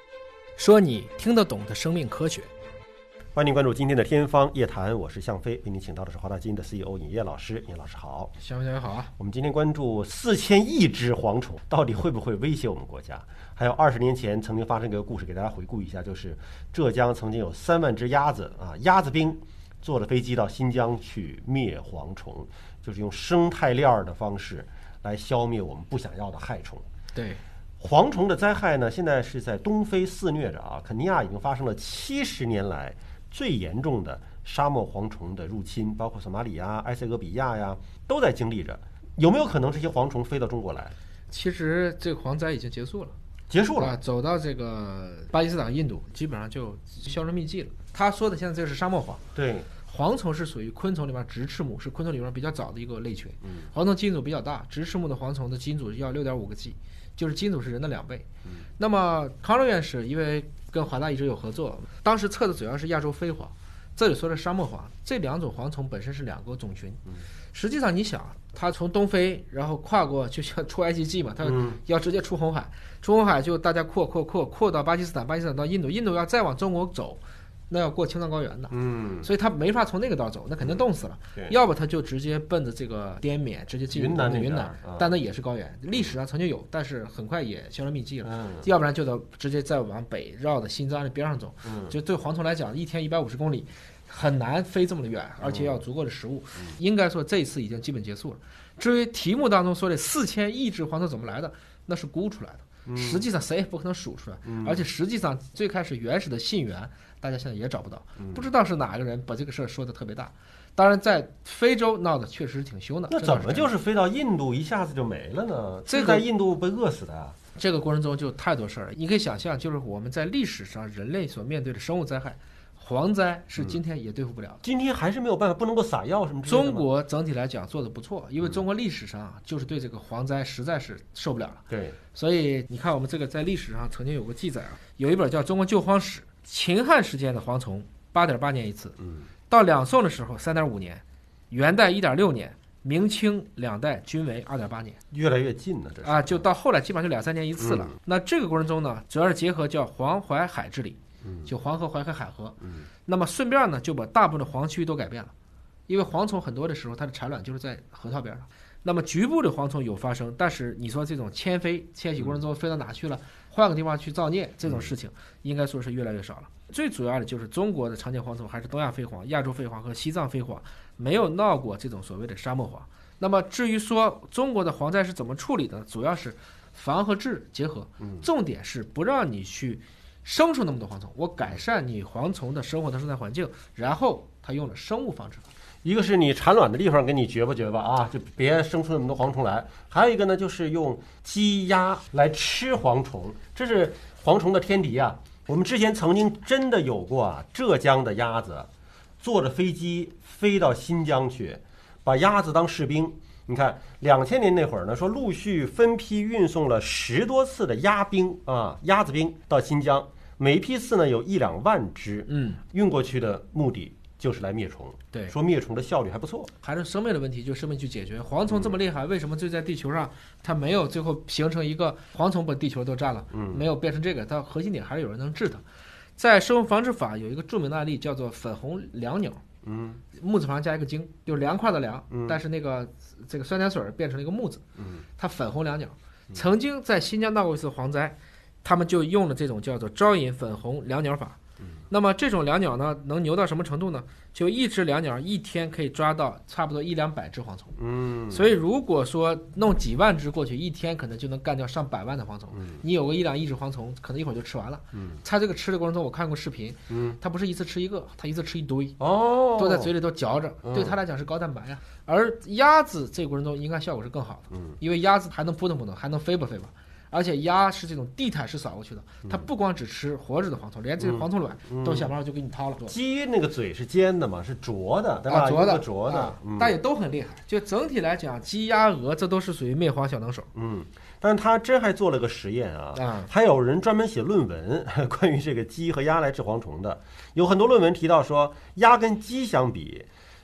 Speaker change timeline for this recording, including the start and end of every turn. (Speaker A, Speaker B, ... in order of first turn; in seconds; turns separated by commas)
Speaker A: 0.6-2.5, Speaker B: 3.3-8.3, Speaker A: 8.4-9.1, Speaker B: 9.2-26.9, Speaker A: 27.1-27.4, Speaker B: 27.8-40.9, Speaker A: 41.3-43.1, Speaker B: 43.5-44.0, Speaker A: 43.8-49.2, Speaker B: 49.4-49.7, Speaker A: 49.8-58.3, Speaker B: 53.4-53.7, Speaker A: 58.8-113.7, Speaker B: 71.4-71.8, Speaker B: 78.7-79.3, Speaker B: 83.9-85.1, Speaker B: 88.2-88.7, Speaker B: 91.6-92.0, Speaker B: 95.4-95.8, Speaker B: 102.9-103.3, Speaker B: 104.5-104.8, Speaker B: 108.2-108.5, Speaker B: 113.1-117.4, Speaker A: 115.9-116.2, Speaker A: 117.5-124.6, Speaker B: 124.6-126.9, Speaker A: 126.5-139.0, Speaker B: 131.7-132.0, Speaker B: 139.0-139.3, Speaker A: 139.5-145.0, Speaker B: 145.1-146.4, Speaker A: 146.0-155.3, Speaker B: 147.6-148.0, Speaker B: 151.2-151.5, Speaker A: 155.9-185.5, Speaker B: 164.7-164.9, Speaker B: 185.8-198.7, Speaker B: 199.2-216.5, Speaker A: 212.3-212.6, Speaker A: 216.6-225.6, Speaker B: 218.5-218.8, Speaker B: 223.3-223.6, Speaker A: 226.2-229.4, Speaker B: 229.6-230.0, Speaker A: 230.1-234.6, Speaker B: 232.1-232.4, Speaker B: 234.8-235.0, Speaker A: 235.2-241.4, Speaker A: 241.9-247.8, Speaker B: 247.8-248.6, Speaker A: 248.3-259.0, Speaker B: 252.6-252.8, Speaker B: 254.9-255.2, Speaker B: 256.9-257.2, Speaker B: 259.0-259.9, Speaker A: 259.5-272.9, Speaker B: 260.6-260.9, Speaker B: 271.0-272.1, Speaker B: 272.9-276.8, Speaker A: 275.3-280.5, Speaker B: 280.5-290.1, Speaker A: 282.9-283.3